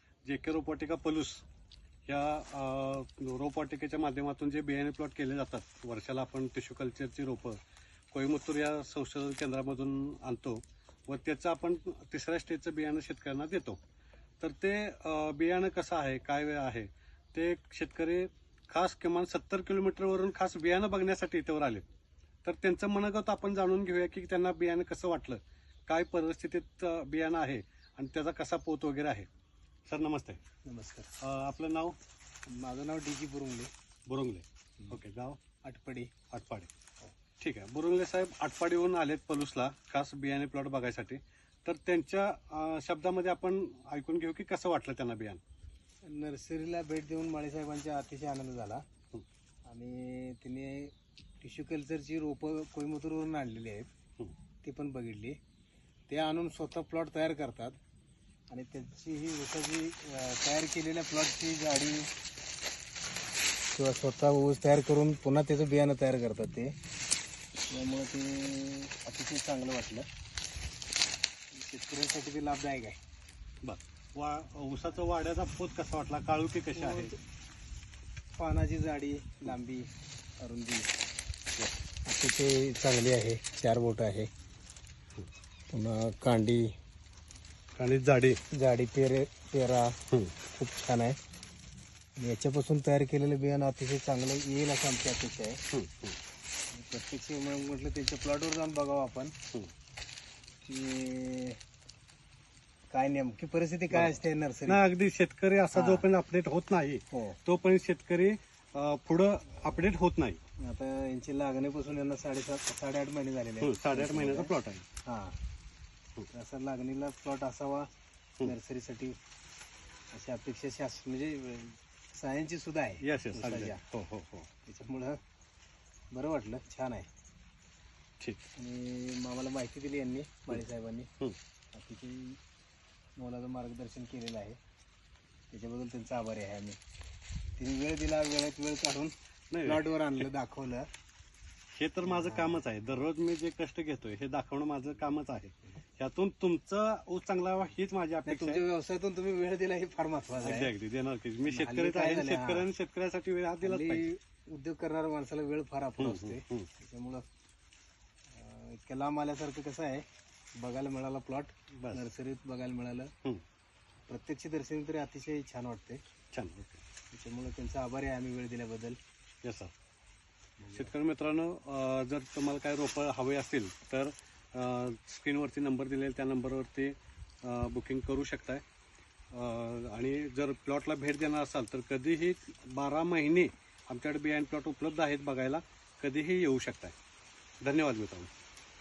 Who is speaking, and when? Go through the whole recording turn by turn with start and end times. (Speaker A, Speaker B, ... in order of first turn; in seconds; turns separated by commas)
Speaker A: 0.2-1.4, Speaker A: 2.1-7.6, Speaker A: 8.1-13.8, Speaker A: 14.4-21.9, Speaker A: 22.4-29.3, Speaker A: 29.9-30.4, Speaker B: 30.7-31.1, Speaker A: 31.2-32.0, Speaker B: 32.5-33.7, Speaker A: 34.1-35.4, Speaker B: 35.6-36.1, Speaker A: 36.3-36.7, Speaker A: 37.4-45.4, Speaker B: 46.0-48.8, Speaker B: 49.7-53.9, Speaker B: 54.6-55.4, Speaker B: 56.1-57.8, Speaker B: 58.5-62.1, Speaker B: 63.7-66.7, Speaker B: 67.7-70.1, Speaker B: 71.5-73.0, Speaker A: 73.6-77.2, Speaker B: 76.8-77.2, Speaker B: 78.4-79.9, Speaker B: 80.4-80.9, Speaker B: 82.1-84.3, Speaker B: 85.7-86.7, Speaker A: 87.8-88.4, Speaker B: 88.5-90.0, Speaker B: 90.6-91.2, Speaker B: 92.2-95.6, Speaker A: 95.7-96.2, Speaker B: 96.7-99.3, Speaker B: 100.7-101.6, Speaker B: 102.9-104.8, Speaker A: 103.9-110.4, Speaker B: 105.7-106.1, Speaker B: 107.1-107.4, Speaker B: 110.6-114.5, Speaker A: 113.6-114.8, Speaker B: 115.0-115.4, Speaker B: 116.3-117.9, Speaker B: 118.4-119.2, Speaker B: 120.1-123.8, Speaker A: 123.0-124.5, Speaker B: 124.7-125.2, Speaker B: 126.1-127.1, Speaker B: 128.6-131.1, Speaker B: 131.7-132.4, Speaker B: 133.2-134.6, Speaker B: 135.5-136.8, Speaker B: 137.6-139.1, Speaker A: 139.5-140.3, Speaker B: 139.7-140.9, Speaker A: 141.7-148.6, Speaker B: 142.0-142.6, Speaker B: 148.3-150.7, Speaker A: 150.4-154.1, Speaker B: 151.4-152.7, Speaker B: 153.6-157.2, Speaker A: 156.0-156.7, Speaker B: 158.3-160.1, Speaker B: 160.6-163.1, Speaker A: 161.7-162.1, Speaker B: 164.1-166.0, Speaker A: 166.3-166.8, Speaker B: 167.1-169.0, Speaker A: 169.4-169.7, Speaker B: 170.6-170.9, Speaker A: 170.7-178.6, Speaker A: 179.3-186.9, Speaker A: 187.6-188.3